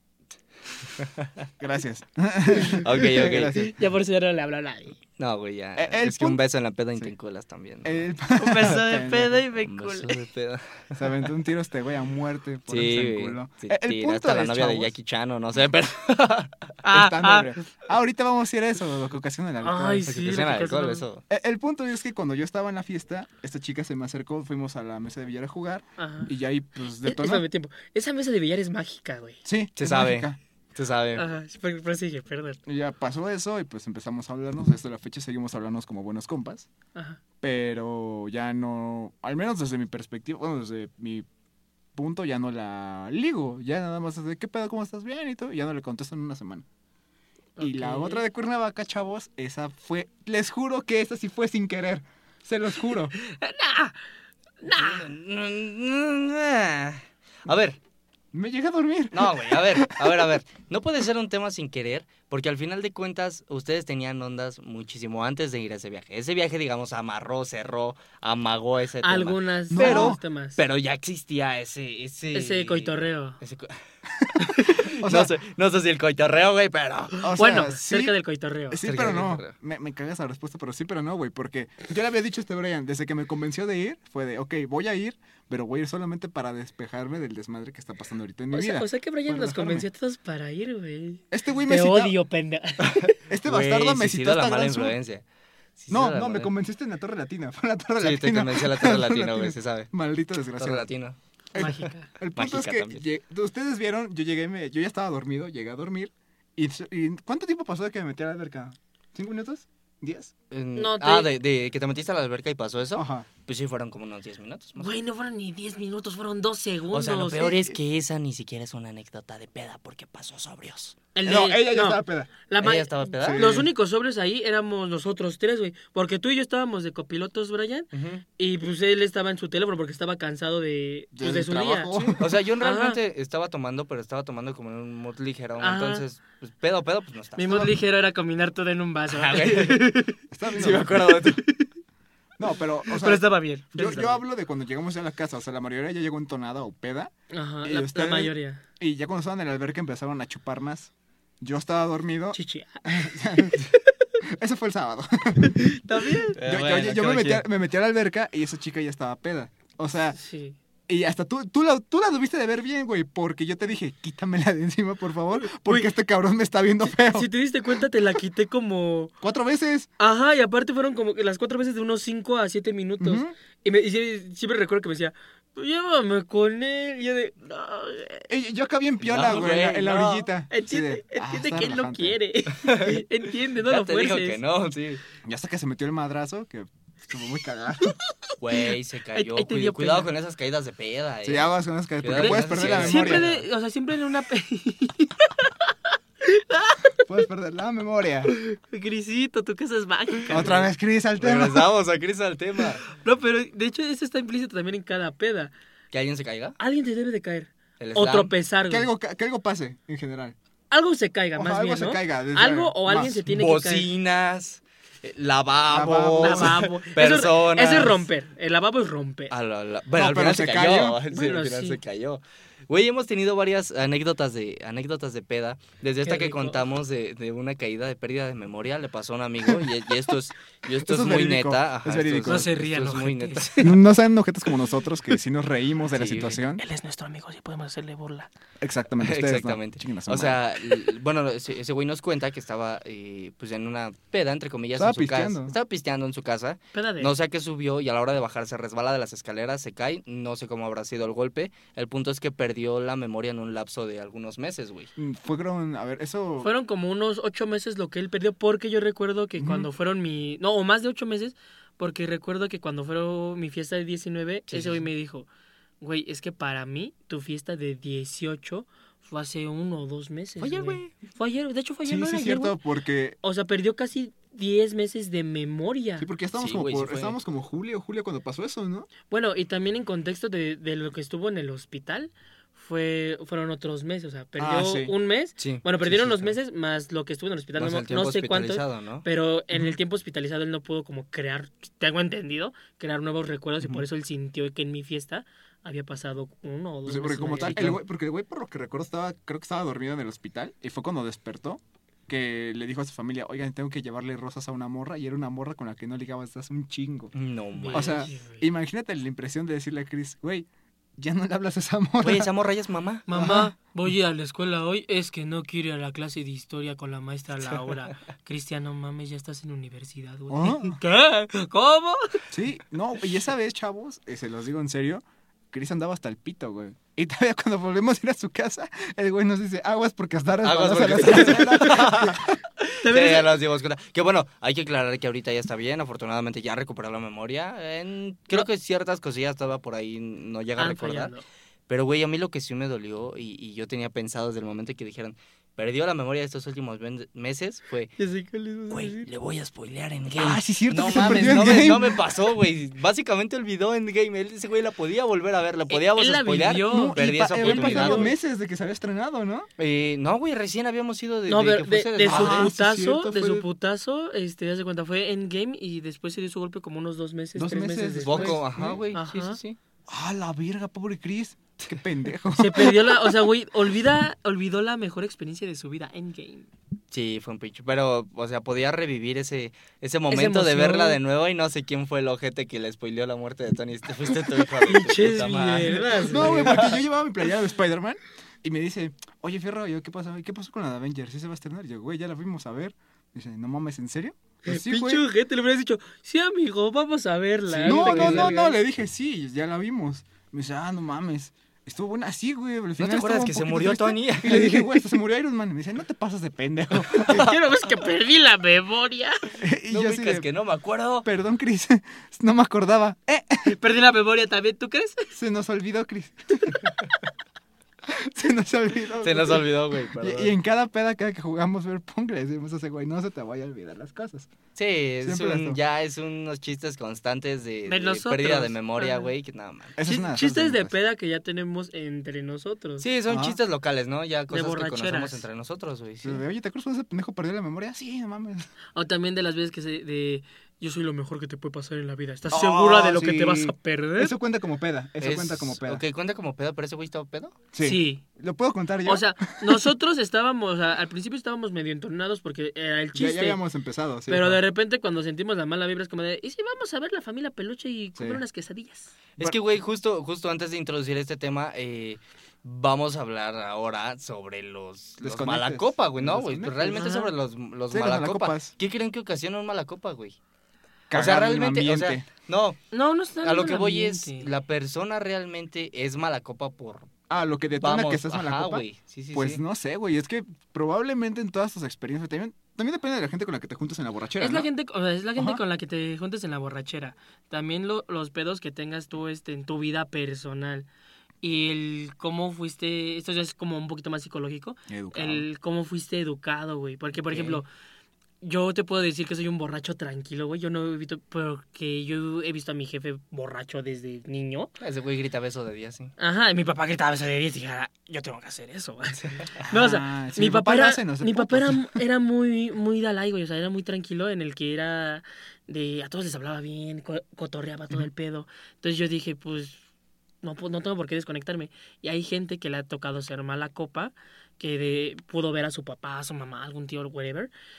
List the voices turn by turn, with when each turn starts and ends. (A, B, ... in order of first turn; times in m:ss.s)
0:01.0-0:01.5 A
0:01.6-0:03.8 B
0:02.6-0:05.0 C
0:02.8-0:03.6 A
0:05.2-0:08.0 A
0:05.8-0:06.4 B
0:07.8-0:09.4 B
0:08.3-0:10.2 C
0:09.6-0:11.2 A
0:11.0-0:15.0 B
0:12.7-0:16.5 A
0:16.8-0:17.7 C
0:16.9-0:20.2 B
0:19.6-0:21.0 C
0:20.1-0:21.2 A
0:21.3-0:27.5 B
0:26.0-0:26.3 C
0:27.0-0:29.4 C
0:29.4-0:30.4 B
0:29.8-0:31.2 A
0:31.2-0:32.6 C
0:32.7-0:36.7 B
0:37.0-0:37.2 C
0:37.4-0:41.3 B
0:42.0-0:46.6 B
0:47.6-0:48.2 C
0:47.6-0:53.2 B
0:53.2-0:54.0 C
0:54.6-0:55.1 C
0:54.7-0:57.8 A
0:58.3-1:00.4 B
0:59.1-1:13.8 A
1:09.0-1:10.6 C
1:09.7-1:10.2 B
1:12.3-1:13.4 C
1:14.4-1:14.8 C
1:14.6-1:17.4 A
1:15.0-1:15.3 B
1:17.2-1:18.2 B
1:17.4-1:18.9 C
1:18.7-1:29.9 B
1:18.8-1:19.5 A
1:28.5-1:33.1 C
1:31.3-1:32.2 B
1:32.9-1:35.2 A
1:33.3-1:35.0 B
1:35.8-1:36.5 A
1:35.9-1:40.9 B
1:38.0-1:39.9 A
1:40.6-1:41.8 A
1:41.5-1:50.3 B
1:41.6-1:42.1 C
1:42.4-1:43.0 A
1:50.5-1:54.9 A
1:50.8-1:51.3 C
1:53.0-1:53.3 B
1:54.8-1:57.6 C
1:56.9-2:01.0 A
2:01.2-2:13.0 C
2:01.2-2:02.3 B
2:02.6-2:03.4 A
2:03.2-2:03.7 B
2:07.9-2:08.2 A
2:11.1-2:12.3 B
2:12.2-2:17.7 A
2:15.6-2:16.0 C
2:17.4-2:21.7 C
2:19.1-2:19.9 A
2:20.3-2:21.0 B
2:20.5-2:21.4 A
2:22.4-2:27.1 B
2:22.9-2:24.2 C
2:27.3-2:28.6 C
2:27.6-2:35.8 B
2:32.3-2:33.8 C
2:35.4-2:36.4 C
2:36.4-2:37.4 A
2:36.4-2:40.2 B
2:40.2-2:40.6 C
2:40.9-2:47.3 B
2:45.4-2:45.9 C
2:46.9-2:49.1 C
2:49.2-2:49.9 B
2:50.0-2:58.3 C
2:53.0-2:53.3 B
2:58.3-3:02.2 B
2:59.0-3:00.3 A
3:00.5-3:04.4 C
3:02.6-3:03.1 A
3:03.6-3:05.0 A
3:05.2-3:08.0 B
3:08.3-3:08.6 C
3:08.4-3:11.5 A
3:09.2-3:10.1 C
3:11.2-3:13.3 B
3:12.0-3:13.4 A
3:12.2-3:17.0 C
3:17.0-3:18.3 B
3:18.3-3:20.7 C
3:20.3-3:21.7 B
3:21.2-3:22.8 A
3:22.9-3:25.5 C
3:25.9-3:26.6 A
3:26.6-3:28.9 C
3:27.8-3:28.3 A
3:28.7-3:30.4 B
3:30.7-3:33.9 C
3:31.4-3:33.2 B
3:33.3-3:38.0 A
3:35.7-3:36.6 B
3:36.2-3:39.3 C
3:39.3-3:53.7 A
3:40.0-3:41.0 B
3:41.1-3:41.8 C
3:46.0-3:46.6 C
3:50.8-3:52.5 B
3:52.3-3:53.8 C
3:53.6-3:56.6 B
3:55.9-3:56.4 A
3:56.6-3:58.3 C
3:58.6-4:00.4 B
3:59.0-4:14.9 A
4:04.8-4:05.6 B
4:06.7-4:07.1 C
4:15.0-4:16.5 B
4:16.4-4:25.3 C
4:19.4-4:19.7 B
4:24.5-4:24.8 A
4:25.8-4:32.6 C
4:30.4-4:30.9 A
4:31.8-4:33.2 B
4:33.2-4:36.1 C
4:36.0-4:38.9 B
4:36.4-4:37.2 A
4:39.1-4:57.8 C
4:44.4-4:45.0 B
4:45.4-4:46.2 A
4:47.6-4:49.1 A
4:56.9-5:07.1 B
4:57.4-4:57.8 A
5:07.1-5:08.1 A
5:07.6-5:08.4 C
5:07.7-5:12.3 B
5:12.0-5:13.0 A
5:13.1-5:22.2 C
5:13.1-5:13.5 B
5:20.3-5:20.8 B
5:22.3-5:32.4 B
5:30.4-5:41.1 A
5:32.8-5:33.4 C
5:40.6-5:41.2 C
5:41.7-5:47.9 A
5:48.0-5:49.1 C
5:48.7-5:58.1 A
5:50.2-5:52.1 B
5:50.9-5:51.6 C
5:55.7-5:58.1 C
5:56.6-5:59.5 B
5:59.6-6:02.5 A
6:01.3-6:09.4 C
6:02.0-6:03.5 B
6:07.4-6:08.8 B
6:08.0-6:09.6 A
6:09.9-6:13.0 B
6:12.3-6:16.5 C
6:16.9-6:26.8 A
6:20.1-6:21.0 C
6:24.7-6:26.7 C
6:26.0-6:35.0 B
6:34.4-6:38.6 C
6:37.5-6:47.3 B
6:37.6-6:38.4 A
6:42.8-6:44.7 A
6:46.9-6:47.3 A
6:47.0-6:49.4 C
6:49.4-6:50.3 B
6:49.7-6:51.1 A
6:51.0-6:53.5 B
6:53.4-6:55.1 C
6:55.1-6:56.6 B
6:57.9-7:04.3 B
6:59.0-7:00.3 A
7:04.6-7:09.8 A
7:05.0-7:05.6 B
7:07.7-7:09.1 C
7:09.8-7:10.7 B
7:09.8-7:12.9 C
7:12.8-7:16.2 A
7:13.1-7:13.4 B
7:14.3-7:15.2 C
7:16.0-7:18.5 B
7:18.8-7:24.1 C
7:22.3-7:25.8 B
7:25.0-7:27.4 A
7:27.5-7:29.7 B
7:27.6-7:28.0 C
7:28.8-7:33.4 C
7:32.9-7:34.4 B
7:34.1-7:39.0 C
7:38.0-7:38.2 B
7:39.2-7:50.2 A
7:45.0-7:46.8 B
7:46.6-7:47.1 C
7:47.7-7:48.5 B
7:50.9-7:52.1 B
7:50.9-7:52.6 A
7:52.7-7:54.3 C
7:53.2-7:56.9 A
7:57.1-8:04.5 B
7:57.6-7:59.4 A
8:04.2-8:10.7 C
8:11.2-8:17.5 C
8:14.7-8:15.3 B
8:17.1-8:17.4 A
8:18.2-8:24.5 C
8:24.6-8:25.9 A
8:26.0-8:39.6 C
8:29.5-8:31.8 B
8:40.2-8:47.3 C